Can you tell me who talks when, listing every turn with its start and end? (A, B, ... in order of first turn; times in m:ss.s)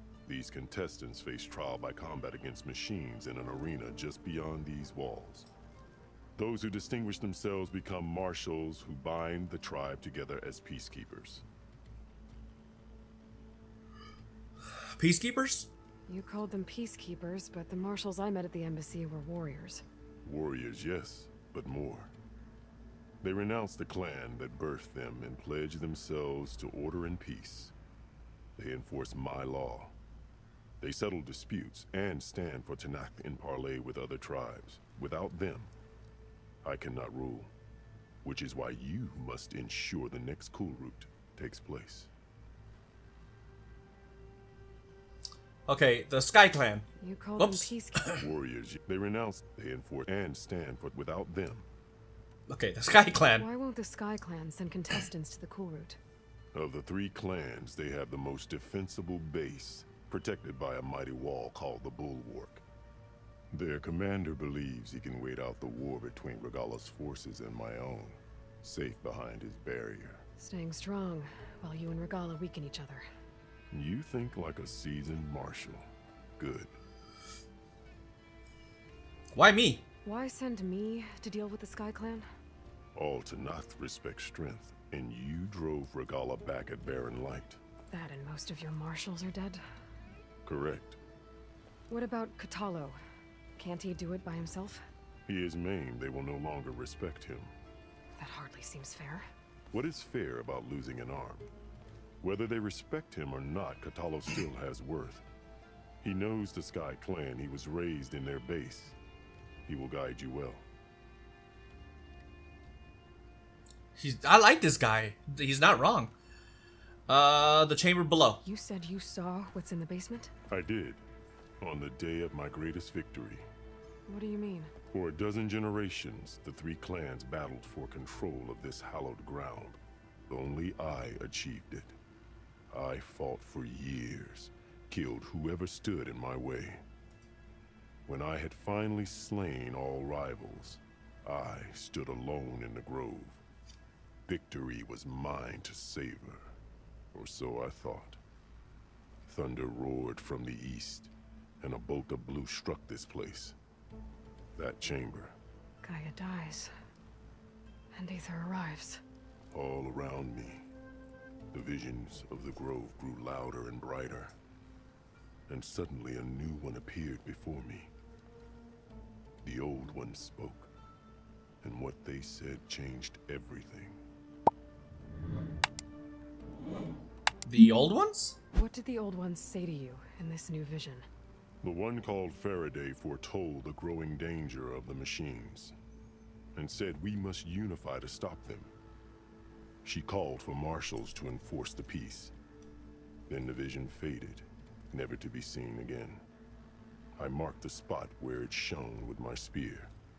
0:00.2-0:05.5 A
0:06.4-0:11.4 A
0:15.0-0:15.7 B
0:16.1-0:19.8 C
0:20.2-0:22.1 A
0:23.2-0:27.7 A
0:28.6-0:29.9 A
0:30.8-0:35.7 A
0:36.6-0:37.5 A
0:38.2-0:42.1 A
0:45.7-0:46.8 B
0:47.0-0:48.0 C
0:47.4-0:48.1 B
0:48.1-0:51.7 A
0:52.5-0:53.4 B
0:53.4-0:56.0 C
0:56.5-1:02.6 A
1:03.5-1:10.2 A
1:10.4-1:13.0 C
1:13.7-1:16.7 A
1:19.3-1:19.8 B
1:20.0-1:22.3 C
1:22.9-1:27.6 A
1:27.9-1:29.6 C
1:30.4-1:31.0 A
1:31.9-1:33.0 C
1:33.6-1:34.8 C
1:35.3-1:37.5 A
1:38.2-1:39.3 C
1:39.7-1:41.5 A
1:42.2-1:45.2 A
1:46.0-1:49.0 A
1:49.7-1:50.6 A
1:54.0-1:56.1 B
1:57.1-1:58.4 B
1:58.4-2:00.3 C
2:00.5-2:01.0 A
2:01.6-2:03.4 A
2:04.1-2:04.7 C
2:04.9-2:09.8 A
2:10.3-2:12.0 A
2:12.7-2:16.8 A
2:18.0-2:23.4 A
2:24.3-2:26.5 A
2:27.1-2:28.2 A
2:29.3-2:31.1 A
2:31.6-2:33.5 A
2:34.6-2:35.4 A
2:35.8-2:36.7 C
2:37.9-2:39.0 C
2:39.5-2:40.6 A
2:41.5-2:44.3 A
2:45.5-2:47.9 A
2:49.4-2:50.7 A
2:51.6-2:54.0 A
2:57.4-2:58.4 B
2:58.5-3:01.0 C
3:01.6-3:05.7 A
3:06.5-3:08.7 A
3:09.8-3:12.3 A
3:13.3-3:16.2 A
3:17.2-3:19.9 A